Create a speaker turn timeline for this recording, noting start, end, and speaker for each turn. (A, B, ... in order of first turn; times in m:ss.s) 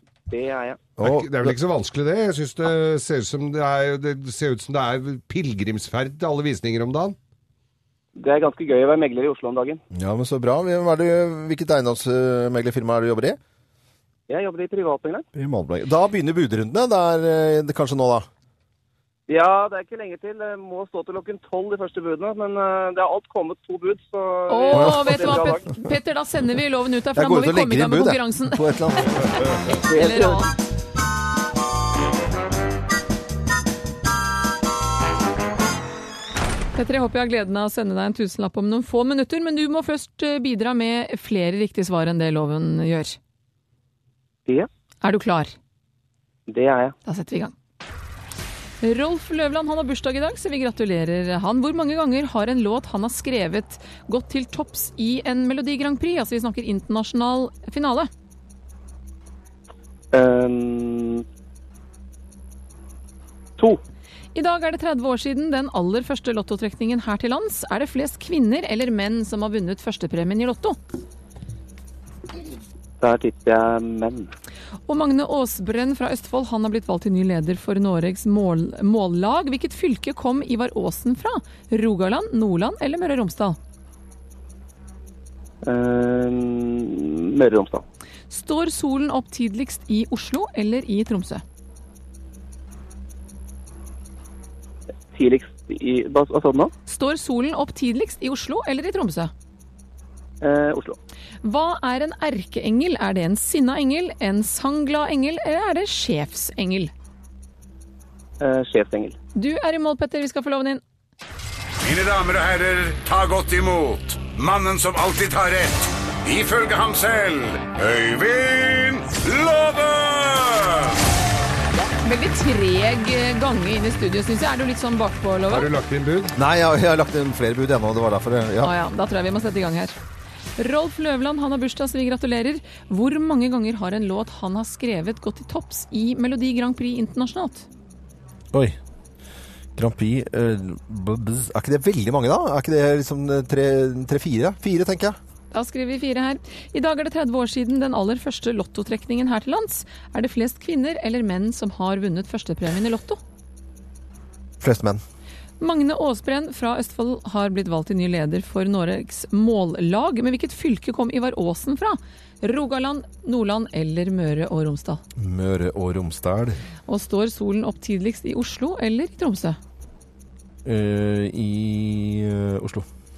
0:00.3-0:00.9 A
0:01.0-0:01.6 B
0:01.0-0:07.2 C
0:08.2-0:09.8 A
0:09.9-0:13.4 B
0:14.3-0:15.3 A
0:15.4-0:18.3 B
0:19.3-0:25.7 A
0:24.5-0:30.5 D
0:24.7-0:25.3 B
0:27.2-0:29.5 B
0:29.7-0:30.5 A
0:36.8-0:43.2 D
0:45.0-0:45.6 D
0:46.5-0:46.9 A
0:47.0-0:47.5 D
0:48.8-0:58.1 D
1:00.1-1:01.2 A
1:04.4-1:10.8 D
1:13.0-1:14.3 A
1:14.9-1:23.6 D
1:25.6-1:27.8 A
1:28.3-1:31.4 D
1:35.1-1:36.7 A
1:36.9-1:39.3 D
1:40.4-1:41.0 A
1:41.4-1:46.9 D
1:48.4-1:49.2 A
1:49.4-1:50.8 D
1:51.8-2:01.0 E
2:02.0-2:05.7 D
2:05.5-2:06.3 C
2:06.4-2:08.7 B
2:08.6-2:09.9 D
2:10.6-2:17.7 D
2:19.8-2:25.2 B
2:25.5-2:33.2 D
2:34.6-2:35.0 B
2:35.6-2:45.0 D
2:45.2-2:46.6 B
2:46.9-2:49.6 D
2:50.6-2:52.9 B